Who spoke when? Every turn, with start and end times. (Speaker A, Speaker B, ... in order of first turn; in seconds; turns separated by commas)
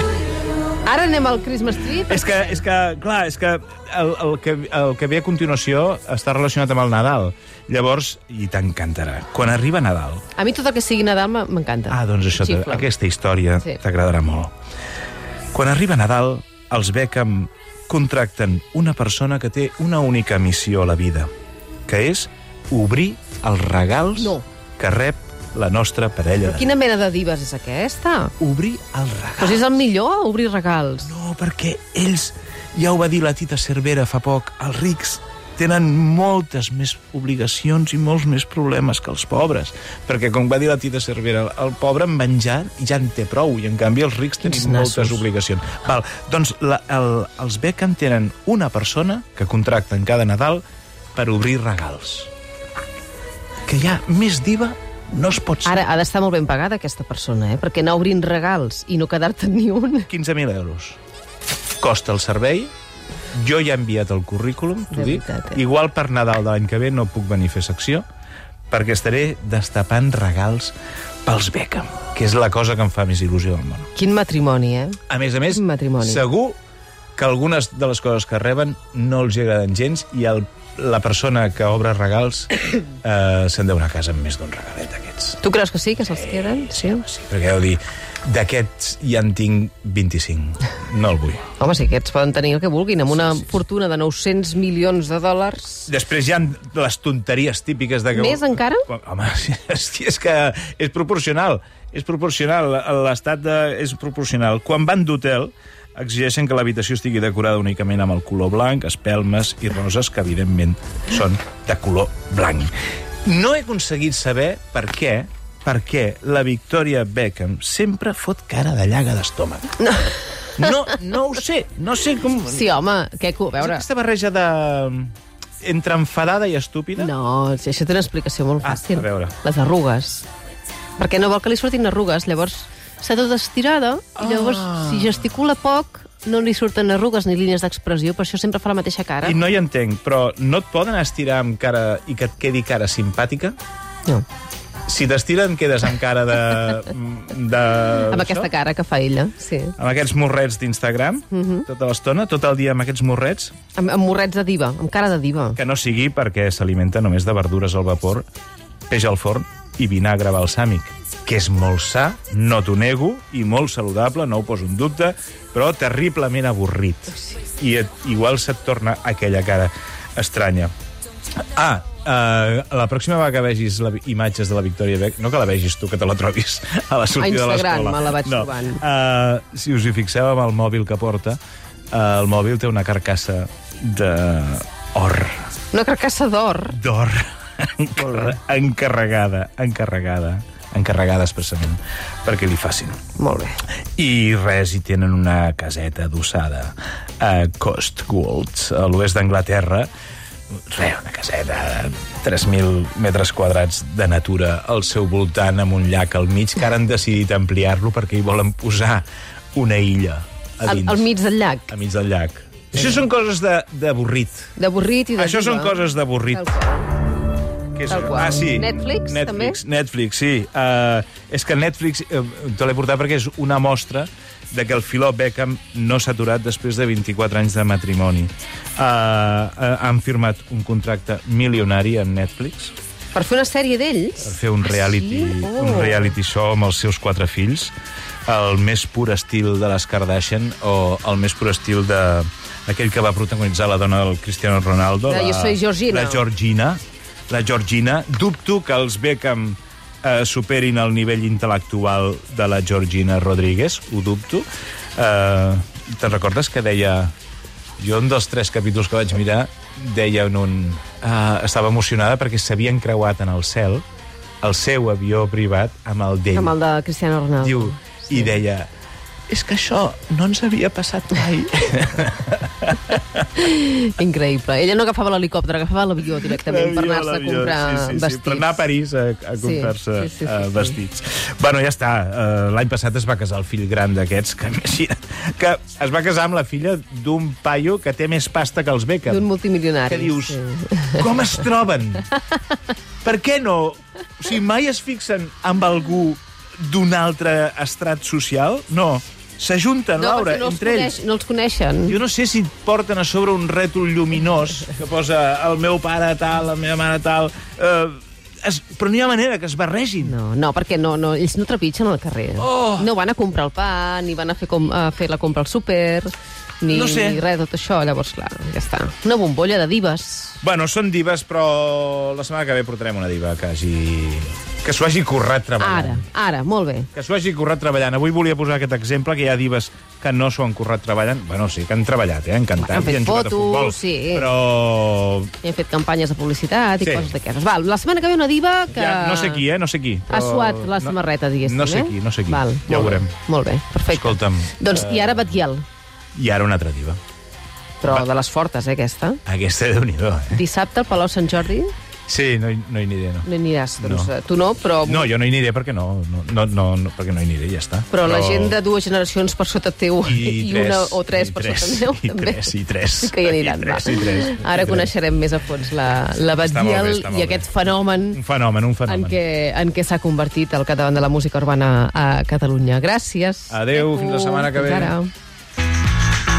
Speaker A: 0.8-2.6, Speaker B: 2.1-10.2, Speaker A: 10.4-12.9, Speaker B: 11.9-14.5, Speaker B: 15.5-21.3, Speaker B: 21.9-26.7, Speaker A: 24.2-24.4, Speaker A: 26.4-28.3, Speaker B: 28.4-29.7, Speaker A: 29.4-31.1, Speaker B: 31.1-50.6, Speaker A: 44.4-45.2, Speaker B: 51.1-52.3, Speaker B: 53.7-55.9, Speaker A: 55.6-60.1, Speaker B: 60.1-61.0, Speaker B: 61.8-62.7, Speaker B: 63.3-68.0, Speaker A: 64.9-65.6, Speaker B: 68.7-73.9, Speaker A: 74.0-76.2, Speaker B: 75.1-76.6, Speaker B: 77.2-85.4, Speaker A: 85.4-87.0, Speaker B: 86.2-91.4, Speaker A: 91.6-95.9, Speaker B: 95.9-112.7, Speaker A: 98.1-98.9, Speaker B: 113.2-119.9, Speaker A: 119.8-120.9, Speaker B: 120.6-122.8, Speaker A: 122.5-123.8, Speaker B: 123.6-127.1, Speaker A: 127.0-130.3, Speaker B: 128.6-129.3, Speaker A: 131.0-139.4, Speaker B: 134.2-135.2, Speaker B: 139.2-143.6, Speaker B: 144.9-148.5, Speaker A: 148.1-149.8, Speaker B: 149.8-153.6, Speaker A: 151.3-151.7, Speaker A: 153.8-155.6, Speaker B: 155.6-158.3, Speaker B: 158.9-170.7, Speaker B: 171.5-181.4, Speaker A: 177.2-178.8, Speaker B: 181.9-185.5, Speaker A: 185.7-186.8, Speaker B: 186.7-193.0, Speaker A: 188.0-188.3, Speaker A: 193.2-193.6, Speaker B: 194.0-199.9, Speaker B: 200.7-211.1, Speaker A: 210.6-211.7, Speaker B: 211.7-214.5, Speaker A: 212.8-213.0, Speaker A: 214.6-216.9, Speaker B: 215.2-216.5, Speaker B: 217.8-232.7, Speaker A: 217.9-219.6, Speaker A: 233.1-236.2, Speaker B: 234.2-237.7, Speaker B: 238.3-257.1, Speaker A: 245.1-246.2, Speaker B: 257.8-263.8, Speaker B: 264.4-266.6, Speaker A: 266.4-268.3, Speaker B: 267.4-268.7, Speaker B: 269.3-273.2, Speaker A: 273.4-278.6, Speaker B: 276.2-289.3, Speaker A: 279.4-280.8, Speaker A: 289.1-291.2, Speaker B: 289.9-290.4, Speaker B: 290.9-292.1, Speaker B: 293.0-301.0, Speaker A: 300.0-302.0, Speaker B: 301.9-310.1, Speaker A: 310.0-320.4, Speaker B: 312.4-312.9, Speaker B: 316.7-317.2, Speaker B: 320.4-326.0, Speaker A: 325.6-326.9, Speaker B: 326.9-335.3, Speaker A: 332.6-334.3, Speaker A: 335.4-339.4, Speaker B: 336.8-337.1, Speaker B: 338.7-343.1, Speaker A: 340.1-345.6, Speaker B: 343.9-345.4, Speaker B: 346.1-347.0, Speaker A: 347.8-349.2, Speaker B: 349.3-350.4, Speaker A: 350.3-351.7, Speaker B: 352.1-353.3, Speaker A: 353.2-355.1, Speaker B: 353.8-354.1, Speaker B: 354.8-358.6, Speaker A: 357.9-368.2, Speaker B: 360.0-364.9, Speaker B: 366.3-369.2, Speaker A: 368.9-375.1, Speaker B: 373.5-375.0